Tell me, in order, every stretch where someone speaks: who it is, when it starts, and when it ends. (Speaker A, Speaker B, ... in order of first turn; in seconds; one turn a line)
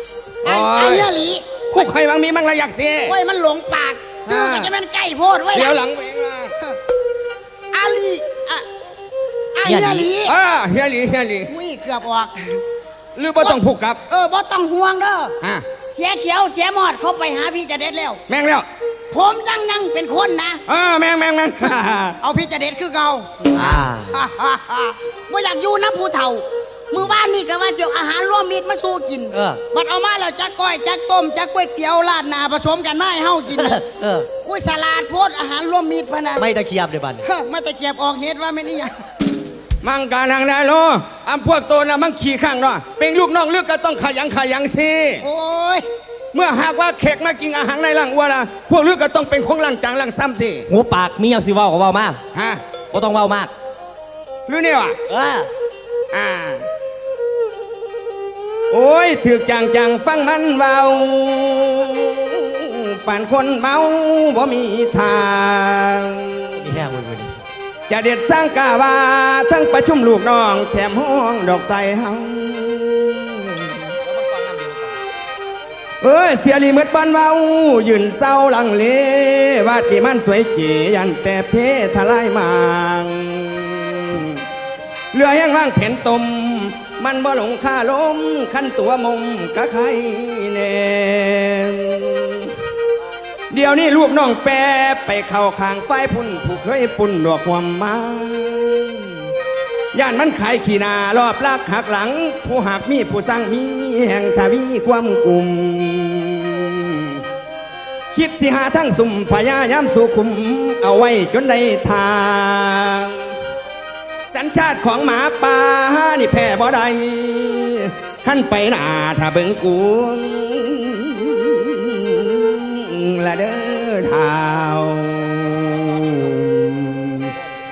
Speaker A: 0.4-1.1
Speaker B: 0.4-1.9
Speaker A: 1.7-3.2
Speaker B: 3.0-5.8
Speaker A: 4.3-4.7
Speaker A: 5.5-6.5
Speaker B: 7.7-8.7
Speaker B: 9.6-10.3
Speaker C: 9.6-10.1
Speaker A: 10.2-11.5
Speaker B: 11.5-12.6
Speaker A: 13.2-14.0
Speaker B: 13.4-15.3
Speaker B: 15.9-18.2
Speaker A: 18.3-18.7
Speaker B: 19.1-20.6
Speaker A: 20.7-22.2
Speaker B: 22.2-33.8
Speaker C: 23.5-24.2
Speaker C: 29.3-29.6
Speaker C: 33.5-34.3
Speaker B: 34.4-36.4
Speaker C: 36.4-37.2
Speaker B: 37.2-38.9
Speaker A: 39.8-45.2
Speaker B: 45.2-45.9
Speaker A: 46.3-50.7
Speaker C: 50.7-52.2
Speaker A: 52.3-52.6
Speaker C: 52.9-53.5
Speaker A: 54.5-55.0
Speaker C: 55.1-55.5
Speaker A: 56.1-56.7
Speaker A: 58.7-66.6
Speaker C: 66.6-67.4
Speaker A: 67.9-73.9
Speaker C: 74.1-75.0
Speaker A: 76.0-84.4
Speaker A: 85.1-92.5
Speaker A: 93.5-99.2
Speaker A: 99.9-107.2
Speaker A: 108.1-113.3
Speaker A: 114.3-127.3